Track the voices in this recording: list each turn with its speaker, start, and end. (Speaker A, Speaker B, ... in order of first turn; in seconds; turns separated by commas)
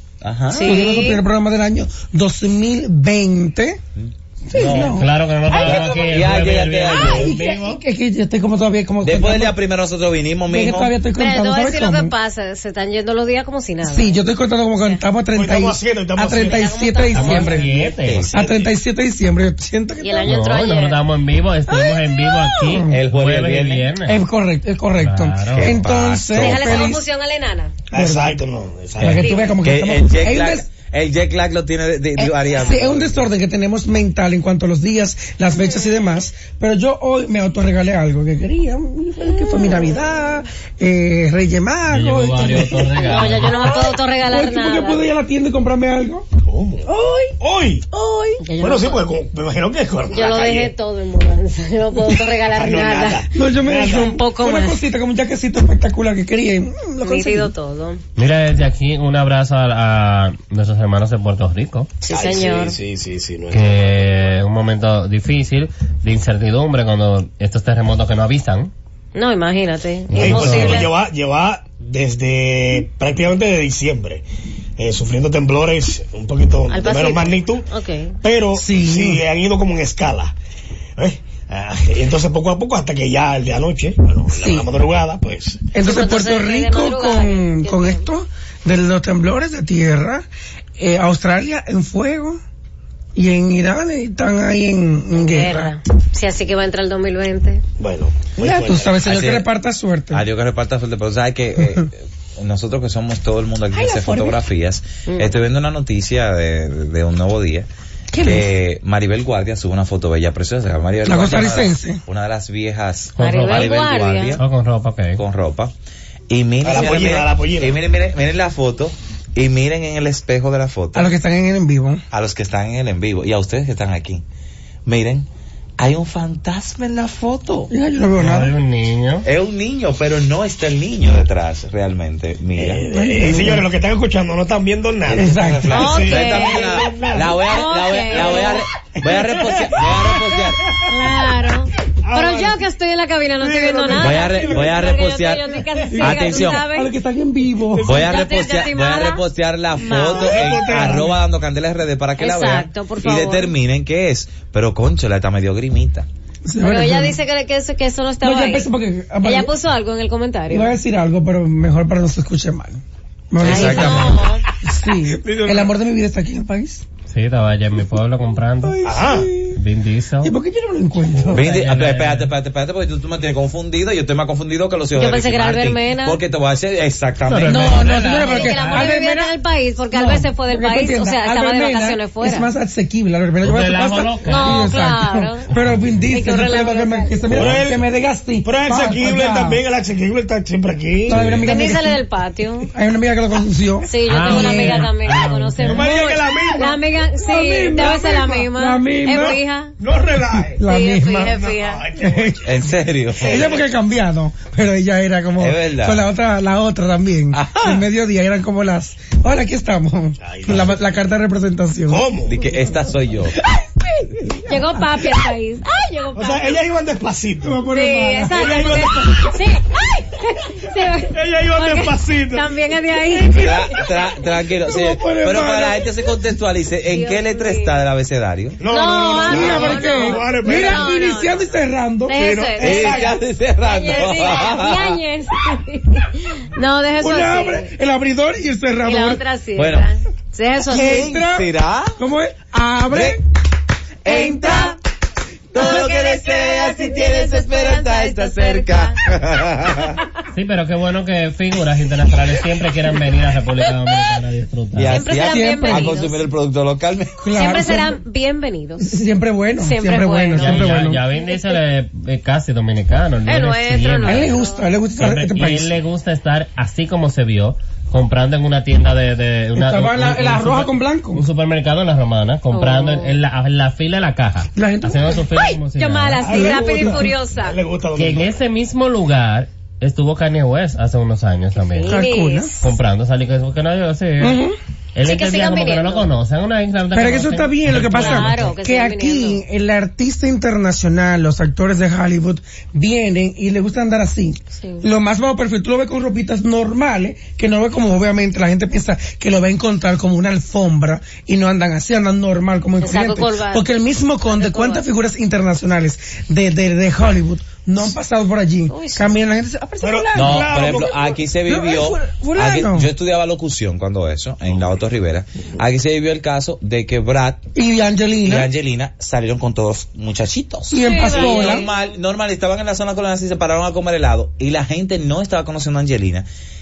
Speaker A: 0.2-0.8, Speaker B: 0.5-1.2, Speaker C: 0.6-3.8, Speaker A: 4.0-5.0, Speaker C: 4.5-6.1, Speaker D: 4.6-7.6, Speaker A: 5.6-7.3, Speaker C: 6.9-9.6, Speaker A: 9.0-10.9, Speaker C: 10.5-12.1, Speaker B: 11.1-14.1, Speaker C: 13.8-20.3, Speaker E: 15.3-16.7, Speaker B: 16.4-17.8, Speaker D: 17.1-18.3, Speaker A: 17.9-18.3, Speaker E: 18.3-18.7, Speaker B: 20.0-21.0, Speaker D: 20.2-24.2, Speaker C: 21.7-23.0, Speaker A: 22.9-23.9, Speaker C: 24.0-27.0, Speaker D: 25.0-25.8, Speaker A: 25.5-26.9, Speaker B: 26.3-27.7, Speaker E: 27.9-29.2, Speaker C: 27.9-28.4, Speaker C: 29.0-30.7, Speaker A: 29.0-33.2, Speaker B: 29.2-29.6, Speaker C: 32.2-46.3, Speaker B: 39.4-39.8, Speaker D: 41.9-43.8, Speaker B: 43.0-45.0, Speaker E: 46.4-47.9, Speaker C: 46.9-47.3, Speaker C: 47.9-48.4, Speaker B: 48.4-49.0, Speaker E: 48.5-50.7, Speaker B: 50.1-54.8, Speaker E: 52.4-54.1, Speaker C: 53.3-57.5, Speaker B: 57.0-58.0, Speaker D: 58.1-61.9, Speaker B: 62.0-62.8, Speaker E: 62.1-64.0, Speaker D: 63.5-68.7, Speaker B: 69.1-70.9, Speaker D: 70.1-70.9, Speaker E: 70.1-74.2, Speaker E: 74.8-77.7, Speaker B: 76.7-78.2, Speaker E: 78.2-80.3, Speaker C: 78.5-79.2, Speaker E: 81.0-85.7, Speaker C: 84.3-84.7, Speaker C: 85.7-90.2, Speaker B: 85.8-88.1, Speaker C: 90.8-92.4, Speaker C: 93.1-95.7, Speaker B: 95.1-97.6, Speaker E: 97.8-99.0, Speaker C: 98.4-100.2, Speaker A: 99.0-99.5, Speaker A: 100.1-107.7, Speaker C: 103.7-104.4, Speaker B: 105.0-105.3, Speaker C: 108.1-108.5, Speaker A: 108.2-114.4, Speaker C: 111.0-112.0, Speaker D: 113.2-113.7, Speaker B: 113.2-114.4, Speaker D: 114.4-115.2, Speaker A: 115.2-115.7, Speaker A: 116.3-121.1, Speaker E: 116.6-117.8, Speaker C: 120.9-122.0, Speaker A: 122.1-124.2, Speaker A: 124.8-125.3, Speaker A: 125.8-127.7, Speaker C: 127.7-128.5, Speaker D: 128.2-129.2, Speaker A: 129.2-132.8, Speaker E: 132.5-137.4, Speaker C: 132.9-133.7, Speaker C: 135.1-135.9, Speaker A: 135.1-140.6, Speaker B: 135.7-138.6, Speaker E: 139.0-140.9, Speaker B: 140.8-146.9, Speaker E: 142.0-142.6, Speaker E: 143.4-145.1, Speaker A: 143.9-146.7, Speaker C: 145.9-148.1, Speaker E: 147.7-148.2, Speaker A: 147.8-156.1, Speaker B: 147.9-149.2, Speaker B: 149.8-150.5, Speaker E: 149.9-151.2, Speaker B: 152.2-153.5, Speaker C: 156.5-157.2, Speaker B: 156.6-158.7, Speaker C: 158.2-159.5, Speaker B: 159.2-160.7, Speaker C: 160.5-166.8, Speaker A: 163.4-164.2, Speaker B: 163.4-164.4, Speaker E: 165.1-165.7, Speaker D: 167.1-168.8, Speaker C: 168.6-169.6, Speaker E: 168.8-169.3, Speaker D: 169.5-170.3, Speaker C: 170.2-171.5, Speaker D: 171.3-172.3, Speaker A: 171.3-178.3, Speaker B: 174.9-176.2, Speaker D: 177.2-178.9, Speaker C: 177.5-179.4, Speaker B: 178.1-182.5, Speaker C: 179.9-189.6, Speaker D: 183.4-184.7, Speaker B: 184.2-185.5, Speaker B: 186.1-187.2, Speaker E: 187.3-187.8, Speaker E: 188.4-191.2, Speaker C: 191.1-192.0, Speaker D: 191.1-191.5, Speaker B: 191.4-192.7, Speaker C: 192.7-194.9, Speaker B: 193.8-199.7, Speaker D: 194.1-195.9, Speaker E: 195.7-196.8, Speaker C: 197.2-199.4, Speaker E: 199.1-200.6, Speaker C: 200.4-201.4, Speaker B: 200.6-201.8, Speaker E: 201.2-202.4, Speaker C: 202.0-202.4, Speaker A: 202.4-203.5, Speaker C: 203.2-212.0, Speaker E: 203.3-203.6, Speaker A: 205.3-206.1, Speaker A: 207.3-207.8, Speaker E: 210.2-210.8, Speaker E: 211.9-212.5, Speaker A: 212.3-213.3, Speaker C: 213.6-214.5, Speaker B: 214.4-216.6, Speaker E: 216.1-217.6, Speaker C: 217.4-219.0, Speaker B: 217.7-223.7, Speaker E: 218.2-219.4, Speaker E: 221.1-222.6, Speaker C: 223.2-223.8, Speaker A: 223.3-228.6, Speaker C: 224.6-225.9, Speaker B: 226.9-227.8, Speaker E: 228.6-231.0, Speaker B: 228.7-231.6, Speaker C: 229.2-232.2, Speaker A: 229.3-229.7, Speaker B: 232.1-233.1, Speaker E: 232.1-233.2, Speaker A: 232.6-235.0, Speaker B: 233.6-237.7, Speaker C: 237.0-239.2, Speaker B: 238.8-241.1, Speaker A: 239.6-239.9, Speaker C: 240.7-243.2, Speaker A: 240.7-241.9, Speaker A: 242.9-243.2, Speaker A: 244.0-244.7, Speaker B: 244.1-244.7, Speaker C: 244.1-244.6, Speaker A: 245.5-250.0, Speaker B: 245.6-249.0, Speaker D: 250.3-255.0, Speaker A: 254.8-257.2, Speaker B: 254.9-256.2, Speaker C: 255.2-256.0, Speaker C: 257.2-258.0, Speaker B: 257.3-259.0, Speaker C: 258.8-261.0, Speaker B: 259.6-260.9, Speaker D: 260.4-264.3, Speaker B: 263.2-264.6, Speaker C: 264.0-265.8, Speaker D: 265.0-276.5, Speaker C: 269.6-271.2, Speaker B: 272.5-273.1, Speaker C: 274.5-275.3, Speaker B: 275.4-277.6, Speaker E: 276.2-278.4, Speaker D: 277.9-282.0, Speaker B: 281.6-282.5, Speaker C: 281.9-282.6, Speaker D: 282.6-284.4, Speaker C: 284.2-284.6, Speaker D: 284.9-288.5, Speaker B: 285.0-286.1, Speaker C: 286.9-310.9, Speaker B: 287.9-289.4, Speaker B: 294.6-294.9, Speaker B: 302.8-303.6, Speaker B: 304.2-304.8, Speaker B: 308.7-309.1, Speaker E: 309.8-311.2, Speaker A: 310.1-317.4, Speaker C: 311.4-312.9, Speaker C: 317.5-318.5, Speaker A: 318.2-326.2, Speaker C: 320.7-321.7, Speaker B: 320.8-321.8